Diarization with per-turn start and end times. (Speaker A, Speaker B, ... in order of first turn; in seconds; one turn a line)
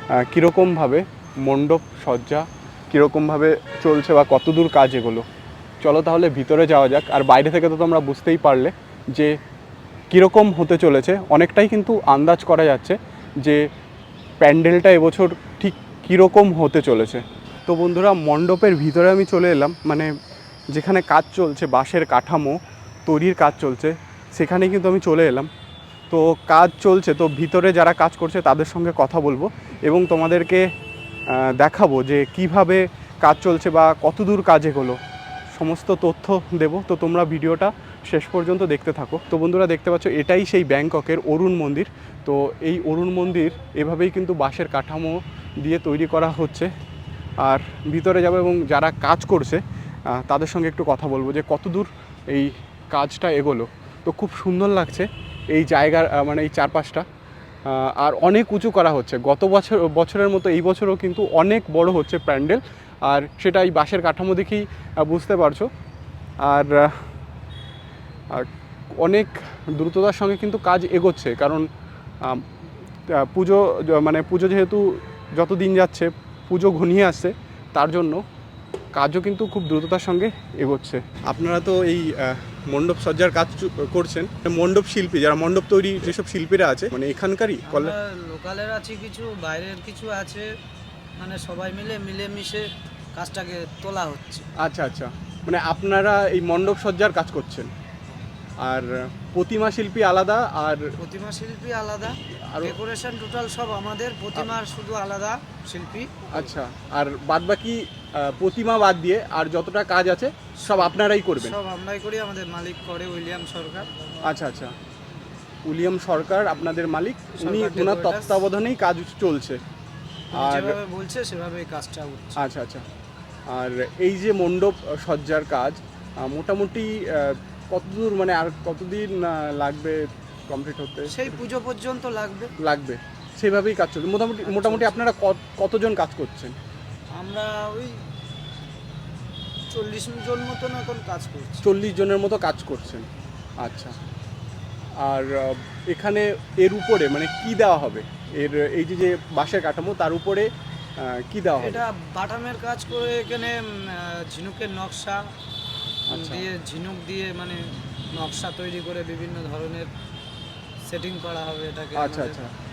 Speaker A: 0.2-5.3
Speaker A: 5.8-9.4
Speaker A: 10.1-13.7
Speaker A: 14.4-20.1
Speaker A: 20.7-25.5
Speaker A: 26.1-30.7
Speaker A: 31.3-35.0
Speaker A: 35.5-46.7
Speaker A: 47.4-57.0
Speaker A: 57.7-65.7
Speaker A: 66.4-67.0
Speaker A: 69.0-71.7
Speaker A: 73.1-78.2
Speaker A: 79.0-88.0
Speaker B: 87.7-90.5
Speaker B: 91.2-94.5
Speaker A: 94.6-97.7
Speaker A: 98.6-100.8
Speaker B: 101.0-106.5
Speaker A: 102.5-102.8
Speaker A: 106.3-111.6
Speaker B: 110.6-113.9
Speaker A: 114.2-114.8
Speaker A: 115.7-119.6
Speaker B: 117.4-118.4
Speaker B: 120.3-122.4
Speaker A: 120.3-120.8
Speaker A: 122.4-122.9
Speaker A: 123.5-131.4
Speaker B: 131.1-132.5
Speaker A: 132.6-136.6
Speaker B: 134.4-135.0
Speaker B: 137.2-138.0
Speaker B: 139.7-141.7
Speaker A: 141.6-143.1
Speaker A: 143.6-143.9
Speaker A: 145.0-151.8
Speaker B: 151.6-155.3
Speaker A: 156.1-156.5
Speaker B: 156.1-159.9
Speaker B: 160.9-162.4
Speaker A: 162.0-162.5